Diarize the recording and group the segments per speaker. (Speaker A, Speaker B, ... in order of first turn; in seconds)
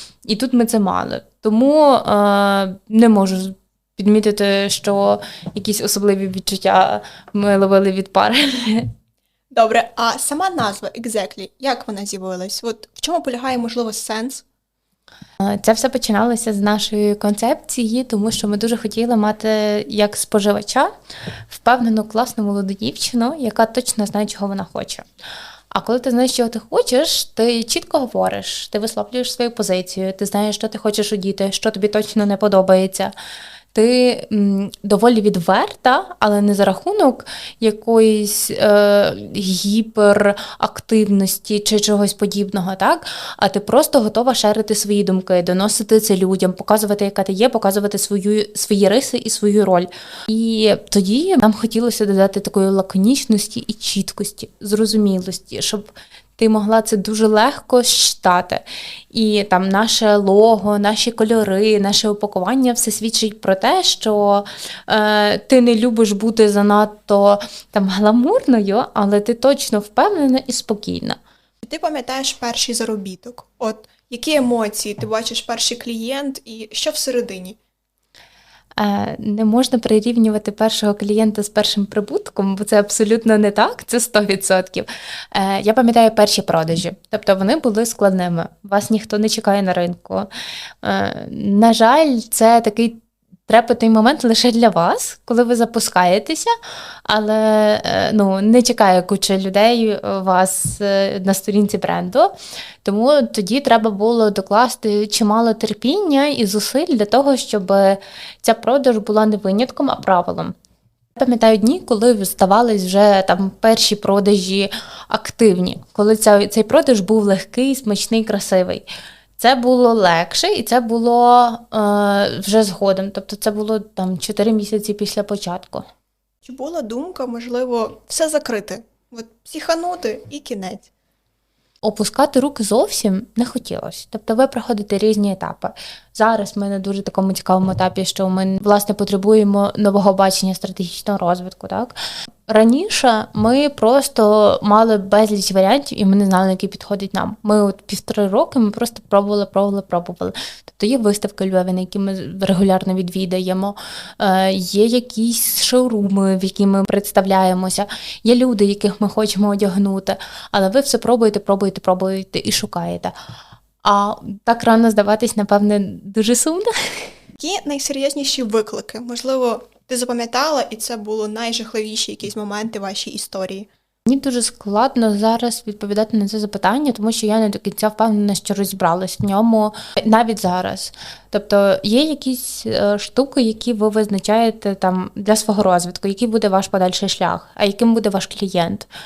Speaker A: 0.2-8.9, 15.4-20.9, 21.5-25.1, 25.7-33.1, 33.7-71.2, 78.8-90.3, 90.8-96.5, 97.1-102.3, 102.8-110.5, 111.2-118.8, 119.4-125.8, 131.8-141.9, 142.5-163.1, 163.8-167.1, 174.1-188.9
Speaker B: 9.5-14.4, 71.6-77.6, 126.4-130.9, 167.4-173.7